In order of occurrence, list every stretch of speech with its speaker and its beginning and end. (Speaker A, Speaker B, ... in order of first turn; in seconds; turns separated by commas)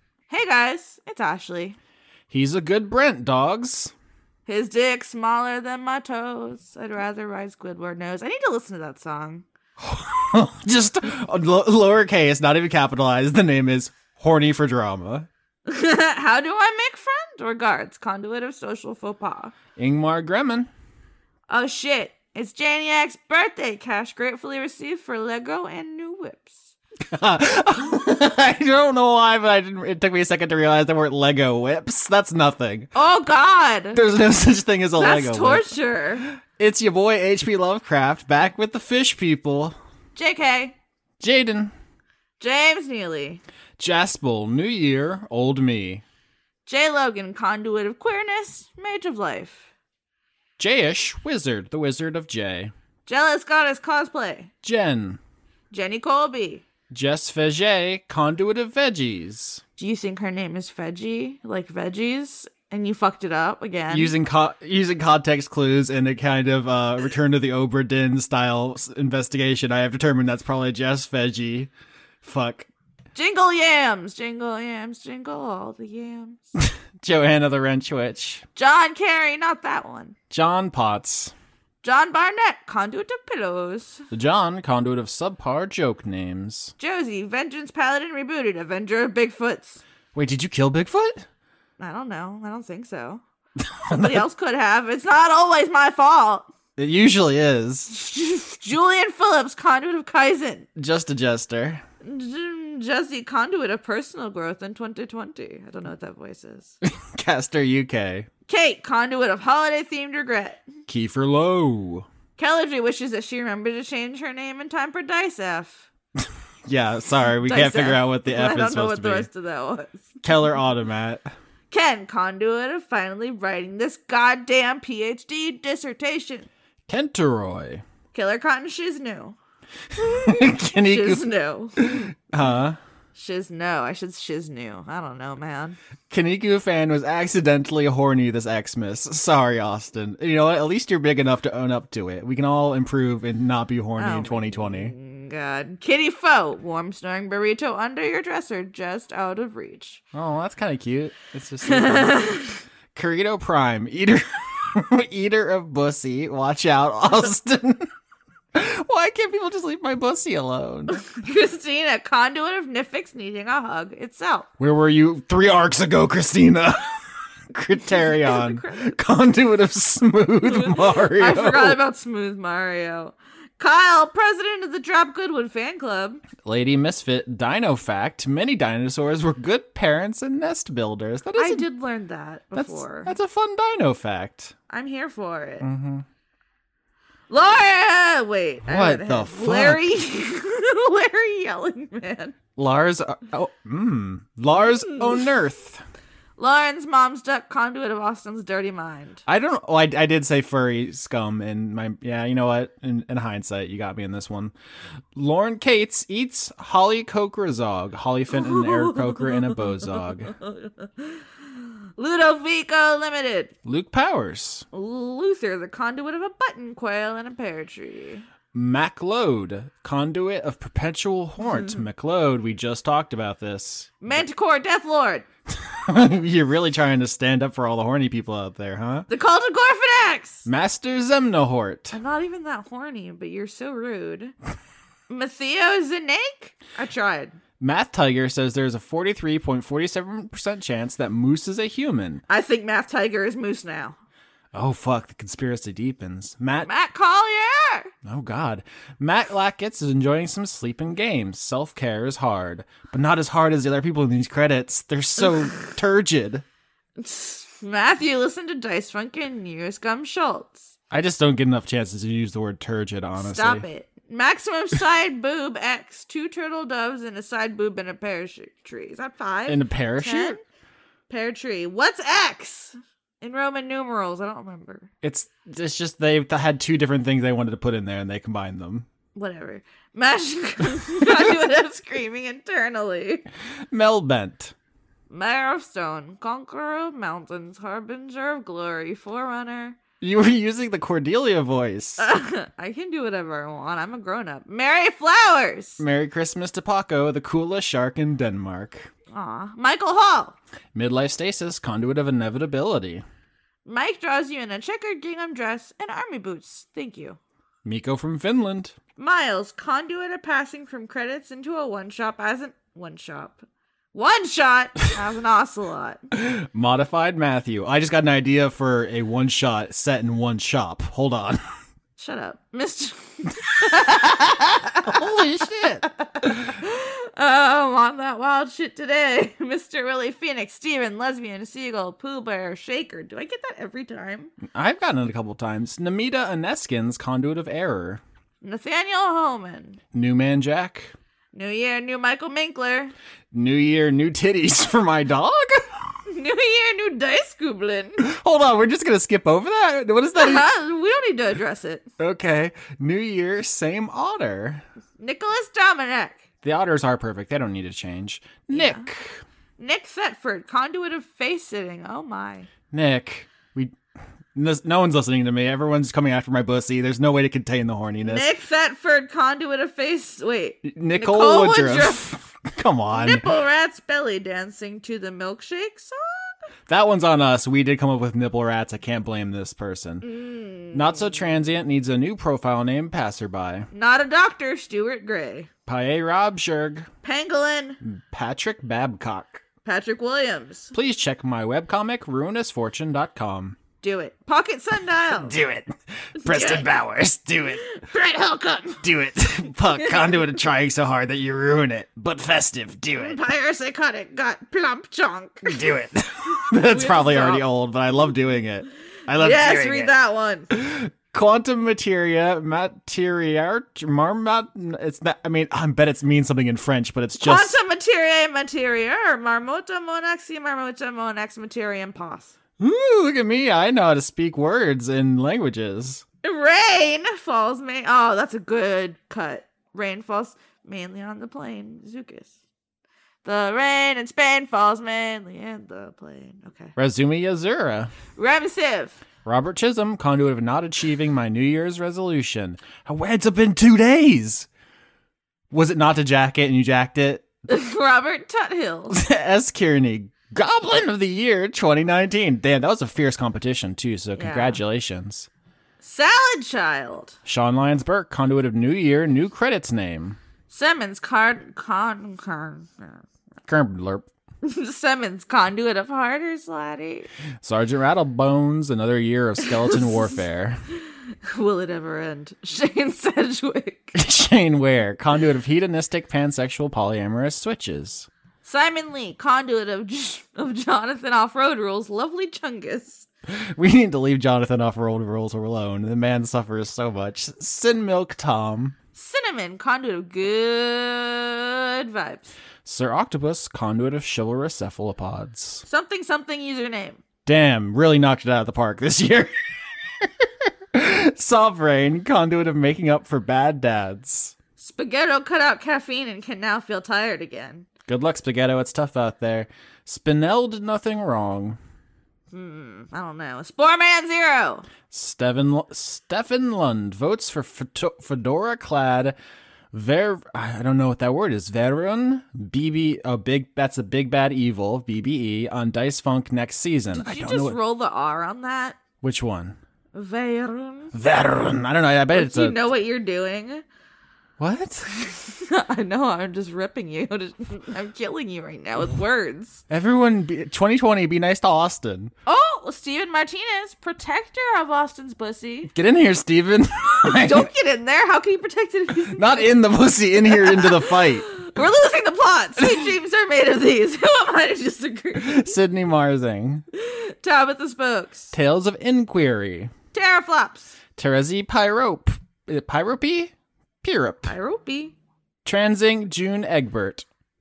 Speaker A: 0.3-1.8, Speaker B: 2.3-3.9, Speaker A: 4.5-9.4, Speaker B: 9.8-15.3, Speaker A: 15.7-19.5, Speaker B: 19.8-20.7, Speaker A: 21.5-26.7, Speaker B: 27.1-32.9, Speaker A: 33.0-34.0, Speaker B: 33.9-35.7, Speaker A: 35.0-36.3, Speaker B: 36.6-39.8, Speaker A: 40.1-40.7, Speaker B: 41.2-41.7, Speaker A: 42.4-43.4, Speaker B: 43.8-46.0, Speaker A: 46.7-49.7, Speaker B: 50.6-52.7, Speaker A: 53.1-54.5, Speaker B: 54.6-55.2, Speaker A: 55.7-56.6, Speaker B: 56.9-59.6, Speaker A: 59.8-64.1, Speaker B: 63.9-71.7, Speaker B: 72.2-72.7, Speaker A: 73.1-76.4, Speaker B: 76.6-78.5, Speaker A: 78.5-80.1, Speaker B: 80.3-81.3, Speaker A: 81.8-84.0, Speaker B: 84.1-86.7, Speaker A: 86.8-89.8, Speaker B: 90.1-91.3, Speaker A: 91.8-93.2, Speaker B: 93.8-94.2, Speaker A: 93.9-96.5, Speaker B: 96.8-97.9, Speaker A: 97.9-100.7, Speaker B: 100.8-101.8, Speaker A: 102.0-106.7, Speaker B: 106.9-108.3, Speaker A: 108.5-110.7, Speaker B: 110.9-112.1, Speaker A: 112.4-115.9, Speaker B: 116.7-119.3, Speaker A: 117.4-120.2, Speaker B: 120.2-121.3, Speaker A: 121.7-126.5, Speaker B: 126.9-127.8, Speaker A: 128.1-129.4, Speaker B: 130.0-131.3, Speaker A: 130.8-131.9, Speaker B: 131.8-132.8, Speaker A: 133.1-135.8, Speaker B: 136.1-144.9, Speaker A: 144.0-150.0, Speaker B: 150.1-157.9, Speaker A: 151.6-152.5, Speaker B: 158.6-161.0, Speaker A: 160.9-164.5, Speaker B: 164.6-167.0, Speaker B: 167.5-171.8, Speaker A: 167.9-168.9, Speaker A: 170.5-176.2, Speaker B: 176.4-181.7, Speaker A: 181.4-183.1, Speaker B: 182.6-184.5, Speaker A: 184.7-185.7, Speaker B: 185.6-186.1, Speaker A: 187.3-192.4, Speaker B: 188.7-189.8, Speaker B: 192.6-195.8, Speaker A: 196.4-199.2, Speaker B: 199.3-204.5, Speaker B: 205.1-210.4, Speaker A: 208.3-209.7, Speaker A: 210.4-211.2, Speaker A: 212.0-213.5, Speaker B: 213.6-214.6, Speaker A: 214.7-218.2, Speaker B: 218.5-224.2, Speaker A: 221.4-221.8, Speaker A: 224.0-225.2, Speaker B: 225.5-229.1, Speaker A: 229.1-230.4, Speaker B: 230.4-232.0, Speaker A: 231.9-234.3, Speaker A: 235.1-237.4, Speaker B: 237.6-242.2, Speaker A: 242.3-243.9, Speaker B: 244.5-246.7, Speaker A: 246.6-247.9, Speaker B: 248.1-256.4, Speaker A: 257.0-260.7, Speaker B: 260.9-263.6, Speaker A: 263.2-270.4, Speaker B: 269.5-270.4, Speaker A: 271.1-274.9, Speaker B: 275.0-278.9, Speaker A: 279.1-283.3, Speaker B: 283.7-284.5, Speaker A: 285.1-289.8, Speaker B: 290.0-292.1, Speaker A: 292.0-295.8, Speaker B: 295.8-298.9, Speaker A: 299.1-300.4, Speaker B: 300.7-303.0, Speaker A: 303.7-307.2, Speaker B: 307.6-308.8, Speaker A: 309.0-316.1, Speaker B: 316.2-321.4, Speaker A: 322.0-334.3, Speaker B: 324.8-325.9, Speaker B: 334.5-338.0, Speaker A: 338.4-339.8, Speaker B: 339.9-340.9, Speaker A: 341.3-342.9, Speaker B: 343.3-345.6, Speaker A: 346.1-348.0, Speaker B: 348.0-350.4, Speaker A: 350.1-351.9, Speaker B: 352.0-354.6, Speaker A: 355.0-356.2, Speaker B: 356.4-359.2, Speaker A: 358.5-358.8, Speaker A: 359.6-362.5, Speaker B: 362.7-363.8, Speaker B: 364.4-368.2, Speaker A: 368.0-372.1, Speaker B: 370.6-373.3, Speaker A: 372.9-376.3, Speaker B: 376.7-380.1, Speaker A: 380.0-381.2, Speaker B: 380.7-383.7, Speaker A: 383.7-385.5, Speaker B: 385.7-386.9, Speaker A: 387.0-387.8, Speaker B: 387.8-389.4, Speaker A: 389.6-390.7, Speaker B: 390.7-393.6, Speaker A: 393.8-395.4, Speaker B: 395.1-397.6, Speaker A: 396.2-396.7, Speaker A: 397.6-398.8, Speaker B: 398.8-403.2, Speaker A: 399.7-400.2, Speaker A: 402.9-405.5, Speaker B: 405.4-409.9, Speaker A: 406.5-407.5, Speaker A: 409.1-410.5, Speaker B: 410.5-417.6, Speaker A: 417.2-422.3, Speaker B: 422.6-426.0, Speaker A: 426.2-432.3, Speaker A: 433.2-436.7, Speaker B: 436.8-438.0, Speaker A: 438.1-439.0, Speaker B: 439.2-444.5, Speaker B: 445.5-447.3, Speaker A: 447.5-449.0, Speaker B: 448.9-455.3, Speaker A: 454.2-454.6, Speaker A: 455.8-457.2, Speaker B: 457.3-460.2, Speaker A: 460.5-463.0, Speaker B: 463.5-464.1, Speaker A: 464.4-467.1, Speaker B: 467.4-470.6, Speaker A: 469.6-469.9, Speaker A: 471.3-473.9, Speaker B: 473.9-478.1, Speaker A: 478.4-483.1, Speaker B: 483.3-488.7, Speaker A: 488.9-492.3, Speaker B: 492.6-495.6, Speaker A: 495.7-497.0, Speaker B: 497.3-499.3, Speaker B: 500.0-504.4, Speaker A: 504.6-507.7, Speaker B: 507.9-511.6, Speaker A: 512.3-514.7, Speaker B: 514.9-519.1, Speaker B: 519.7-527.6, Speaker A: 526.9-528.8, Speaker B: 529.0-529.6, Speaker A: 530.0-530.9, Speaker B: 530.9-532.6, Speaker A: 532.1-533.6, Speaker B: 534.4-534.9, Speaker A: 535.0-539.6, Speaker B: 539.7-542.1, Speaker A: 542.3-545.7, Speaker B: 545.7-547.5, Speaker A: 547.1-549.6, Speaker B: 549.1-551.3, Speaker A: 550.2-555.5, Speaker B: 555.2-556.6, Speaker A: 556.7-558.3, Speaker B: 558.3-559.7, Speaker A: 559.9-560.8, Speaker B: 561.0-564.3, Speaker A: 564.3-564.9, Speaker B: 565.5-567.0